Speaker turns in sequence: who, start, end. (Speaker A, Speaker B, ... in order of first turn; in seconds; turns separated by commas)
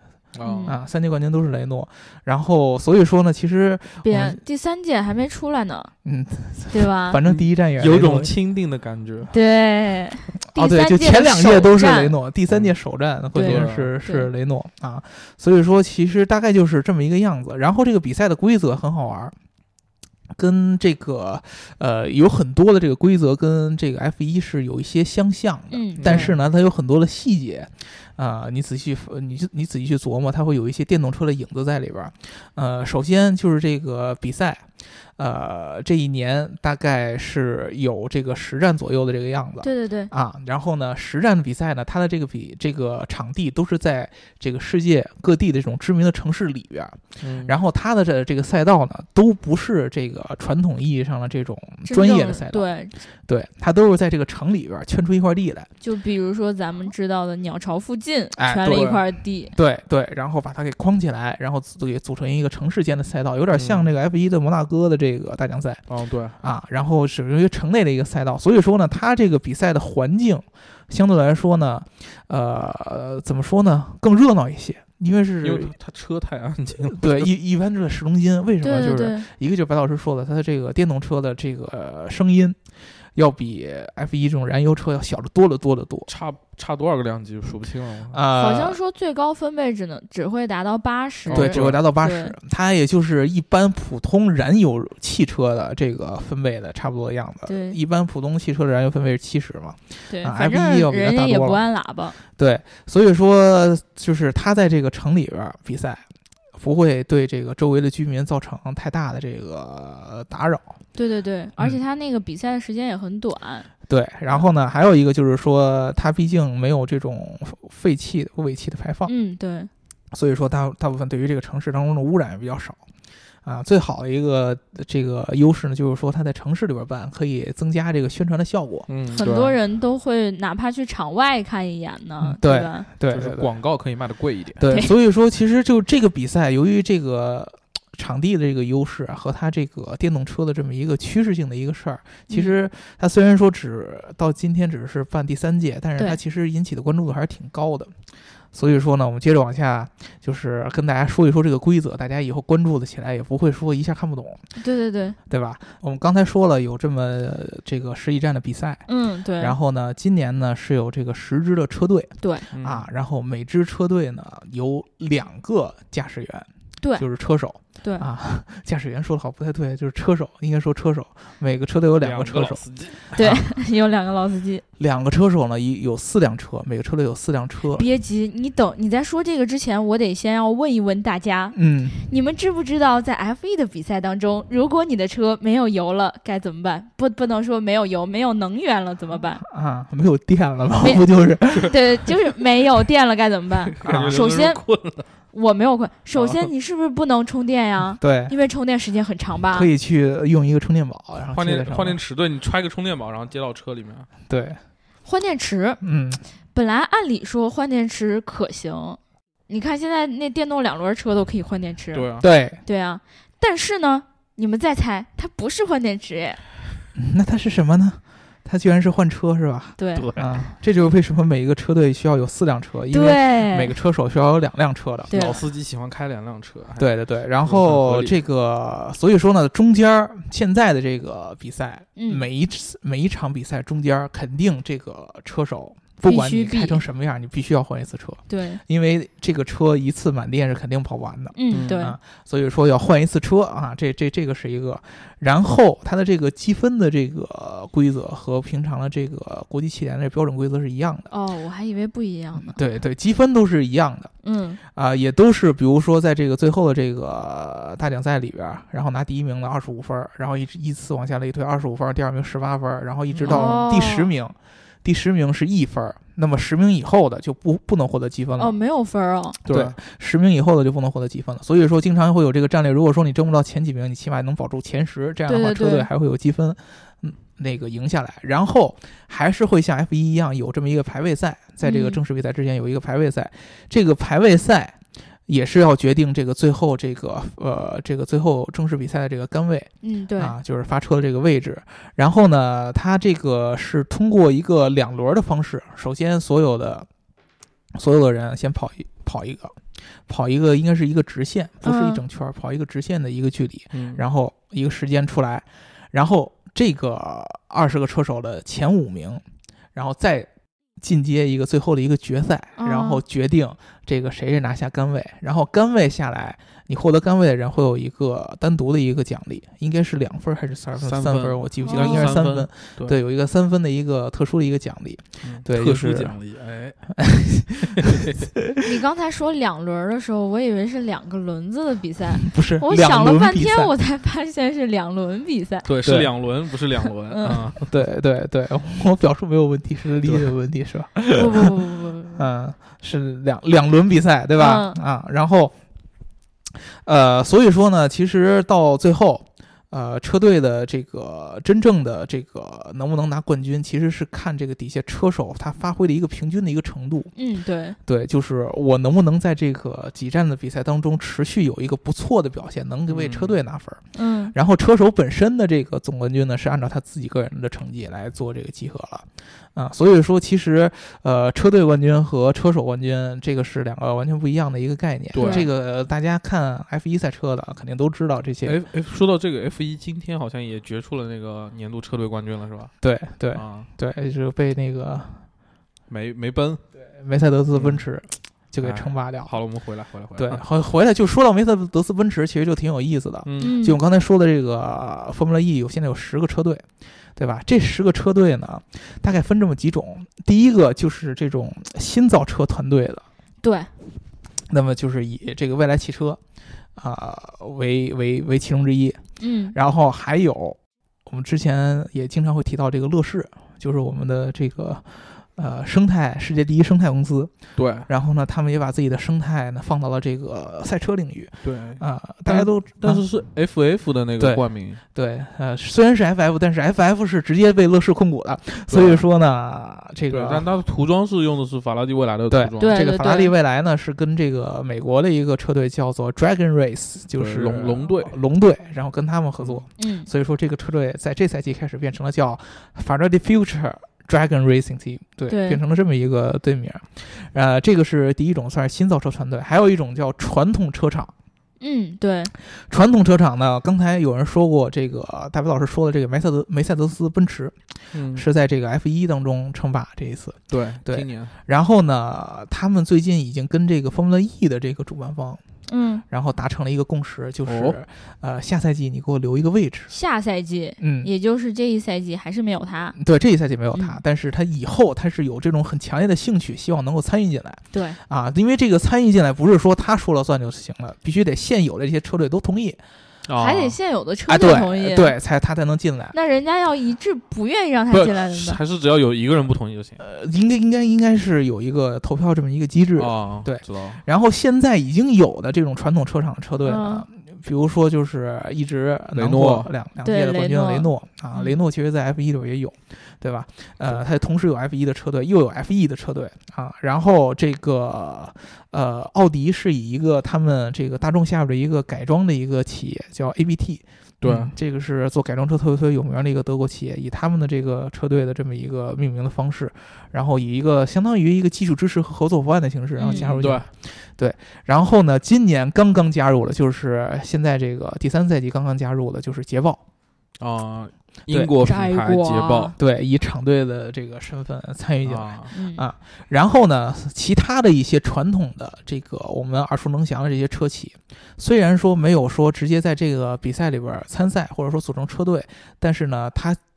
Speaker A: 0.3-0.7, Speaker B: 0.4-0.8, Speaker C: 0.6-4.4, Speaker B: 4.0-5.9, Speaker C: 6.0-8.3, Speaker B: 6.7-7.2, Speaker A: 7.2-9.3, Speaker B: 9.3-12.1, Speaker C: 10.5-19.3, Speaker B: 13.3-14.3, Speaker A: 13.3-13.9, Speaker C: 20.3-52.7, Speaker B: 25.7-26.3, Speaker A: 26.0-26.4, Speaker B: 39.6-40.1, Speaker A: 47.2-47.5, Speaker B: 51.9-52.9, Speaker C: 53.2-55.7, Speaker B: 55.8-59.5, Speaker C: 58.4-59.0, Speaker A: 58.6-59.0, Speaker C: 59.5-65.8, Speaker A: 63.5-63.9, Speaker A: 65.9-66.3, Speaker C: 66.4-75.7, Speaker A: 75.4-77.3, Speaker C: 76.9-82.6, Speaker B: 78.6-79.2, Speaker C: 83.1-86.1, Speaker A: 86.1-88.2, Speaker C: 88.1-88.8, Speaker B: 88.3-92.3, Speaker C: 91.3-101.6, Speaker A: 91.3-91.8, Speaker B: 97.5-97.8, Speaker B: 100.1-102.2, Speaker C: 102.3-106.0, Speaker C: 106.6-110.7, Speaker B: 111.0-113.7, Speaker C: 113.9-119.1, Speaker B: 119.0-119.7, Speaker C: 120.1-122.8, Speaker C: 123.4-128.9, Speaker A: 128.9-129.6, Speaker B: 129.1-132.9, Speaker C: 132.2-133.5, Speaker A: 133.1-134.6, Speaker C: 134.6-147.9, Speaker B: 134.6-134.9, Speaker C: 148.5-154.4, Speaker B: 154.6-155.2, Speaker C: 155.3-158.8, Speaker B: 158.9-159.6, Speaker C: 159.4-173.4, Speaker B: 162.2-162.4, Speaker A: 162.5-162.8, Speaker A: 172.0-173.0, Speaker B: 173.1-174.6, Speaker C: 174.8-177.8, Speaker B: 177.7-189.4, Speaker C: 181.5-182.0, Speaker C: 189.4-191.7, Speaker B: 191.6-194.6, Speaker A: 193.8-195.1, Speaker C: 193.8-194.3, Speaker B: 195.3-199.7, Speaker A: 196.2-196.5, Speaker C: 198.0-198.3, Speaker C: 199.5-202.0, Speaker A: 201.3-204.1, Speaker C: 204.3-204.6, Speaker B: 205.0-205.8, Speaker C: 205.8-206.2, Speaker B: 206.5-212.1, Speaker A: 211.9-212.2, Speaker C: 212.2-212.6, Speaker B: 212.6-216.4, Speaker C: 216.9-225.2, Speaker B: 219.8-220.1, Speaker A: 219.9-220.5, Speaker B: 222.9-223.7, Speaker A: 225.1-228.1, Speaker B: 225.1-225.4, Speaker C: 226.8-251.1, Speaker B: 231.9-232.2, Speaker B: 236.1-236.8, Speaker B: 238.3-238.6, Speaker B: 241.3-241.9, Speaker A: 241.5-241.8, Speaker B: 251.1-252.6, Speaker C: 252.4-254.1, Speaker B: 254.2-254.6, Speaker C: 254.7-268.5, Speaker A: 263.1-263.6, Speaker B: 263.3-264.1, Speaker B: 268.4-269.4, Speaker A: 269.4-269.8, Speaker C: 269.5-284.8, Speaker B: 275.3-275.9, Speaker B: 281.6-282.0, Speaker C: 285.3-296.9, Speaker B: 289.8-290.4, Speaker C: 297.7-309.2, Speaker B: 301.6-302.0, Speaker A: 303.7-304.0, Speaker C: 309.7-310.3, Speaker C: 310.8-326.1, Speaker B: 312.6-313.0, Speaker A: 320.8-323.0, Speaker B: 321.6-322.1, Speaker A: 325.2-326.8, Speaker C: 327.0-328.6, Speaker A: 327.6-328.2, Speaker B: 328.6-335.7, Speaker C: 332.2-333.7, Speaker A: 335.6-337.8, Speaker C: 335.8-336.1, Speaker B: 337.1-337.4, Speaker C: 337.3-341.5, Speaker A: 340.0-340.3, Speaker B: 341.1-342.2, Speaker C: 342.1-345.5, Speaker B: 344.4-344.8, Speaker C: 346.7-357.1, Speaker B: 357.1-357.8, Speaker C: 357.9-378.6, Speaker A: 362.9-363.4, Speaker B: 363.9-364.3, Speaker A: 375.1-375.5, Speaker B: 375.2-375.5, Speaker A: 378.4-382.7, Speaker C: 382.8-385.2, Speaker A: 383.3-383.7, Speaker A: 385.9-386.6, Speaker C: 386.8-389.4, Speaker A: 387.5-387.8, Speaker A: 388.6-390.4, Speaker C: 390.2-403.0, Speaker A: 393.2-393.6, Speaker B: 393.4-393.8, Speaker B: 403.4-403.7, Speaker C: 404.5-406.2, Speaker C: 406.8-409.0, Speaker B: 409.2-409.6, Speaker C: 409.5-417.3, Speaker A: 417.6-417.9, Speaker C: 417.9-423.0, Speaker A: 421.4-424.8, Speaker C: 424.2-430.4, Speaker A: 428.7-429.0, Speaker A: 430.1-432.8, Speaker C: 432.3-451.1, Speaker B: 432.6-433.3, Speaker A: 437.1-438.1, Speaker B: 439.8-440.1, Speaker B: 445.3-445.6, Speaker B: 451.6-452.3, Speaker C: 452.4-457.6, Speaker A: 457.9-458.2, Speaker C: 458.1-465.4, Speaker A: 460.5-461.3, Speaker B: 465.7-466.0, Speaker C: 466.1-469.9, Speaker A: 467.4-467.8, Speaker B: 469.9-473.0, Speaker C: 470.8-471.1, Speaker C: 472.9-482.8, Speaker B: 477.7-478.0, Speaker A: 483.3-483.8, Speaker B: 483.4-485.2, Speaker C: 484.3-486.1, Speaker B: 486.1-488.6, Speaker A: 487.9-490.0, Speaker C: 490.0-529.8, Speaker A: 493.0-494.0, Speaker B: 496.6-497.1, Speaker A: 499.1-499.7, Speaker B: 500.0-501.6, Speaker A: 514.2-514.5, Speaker B: 523.0-523.3, Speaker A: 523.0-523.7, Speaker A: 530.4-532.7, Speaker B: 531.6-532.8, Speaker C: 532.8-546.6, Speaker A: 535.0-535.5, Speaker B: 535.5-535.8